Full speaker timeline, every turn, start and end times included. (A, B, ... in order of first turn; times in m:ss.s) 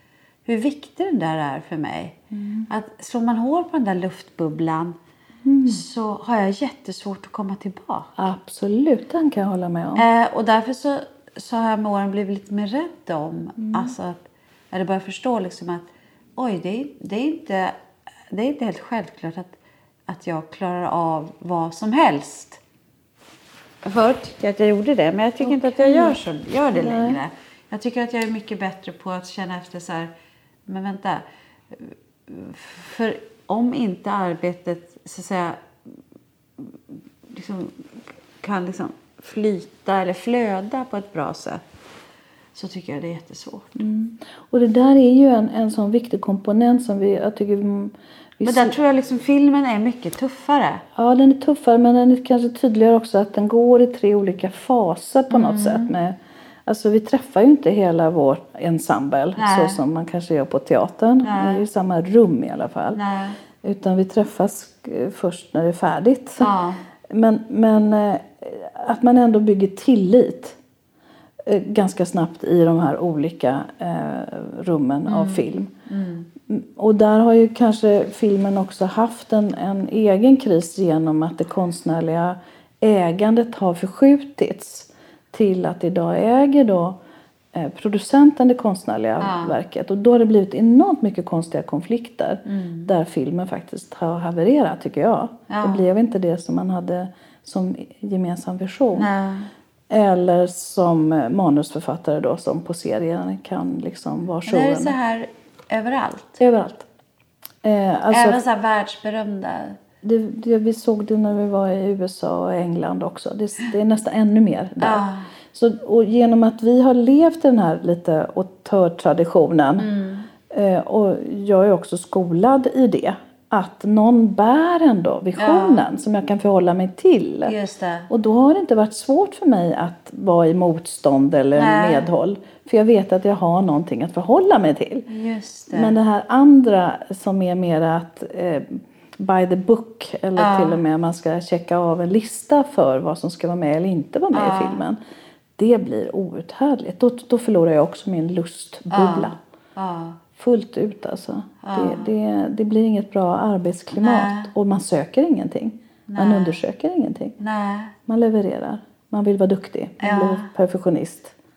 0:00.4-0:05.0 A
0:02.3-0:02.7 B
0:05.4-0:05.8 B
0:05.7-0:08.2 A
0:08.2-0:10.0 B
0:10.0-0:17.7 A
0:13.6-0:13.9 B
0:18.3-0:22.6 A
0:23.8-0:30.1 A
0:25.4-0:26.2 B
0:26.7-0:27.2 B
0:30.7-0:35.7 A
0:37.3-0:37.9 A
0:38.4-0:41.6 A
0:42.6-0:43.8 A
0:43.8-0:48.7 B
0:48.4-0:50.8 A
0:51.0-1:03.0 B
0:55.3-0:55.9 A
0:59.3-0:59.8 A
1:01.2-1:01.6 A
1:02.9-1:03.4 A
1:03.6-1:06.6 B
1:06.4-1:06.8 A
1:07.1-1:10.6 B
1:11.4-1:15.7 B
1:15.1-1:16.3 A
1:16.5-1:27.0 B
1:27.5-1:39.1 B
1:29.2-1:29.6 A
1:32.5-1:32.9 A
1:35.5-1:35.8 A
1:38.9-1:39.5 A
1:39.9-1:45.0 B
1:44.4-1:46.4 A
1:46.4-1:46.9 B
1:47.6-1:48.4 B
1:48.1-1:49.8 A
1:50.0-1:59.9 B
1:54.8-1:55.3 A
1:59.8-2:00.3 A
2:00.5-2:07.6 B
2:05.4-2:05.9 A
2:07.4-2:08.1 A
2:08.1-2:15.1 B
2:11.6-2:12.0 A
2:15.1-2:16.0 A
2:15.7-2:25.0 B
2:20.4-2:20.8 A
2:24.3-2:24.8 A
2:25.6-2:29.4 B
2:28.9-2:30.2 A
2:30.4-2:37.4 B
2:31.6-2:32.1 A
2:33.9-2:34.5 A
2:36.1-2:36.6 A
2:37.4-2:38.0 A
2:38.1-2:41.3 B
2:40.0-2:40.5 A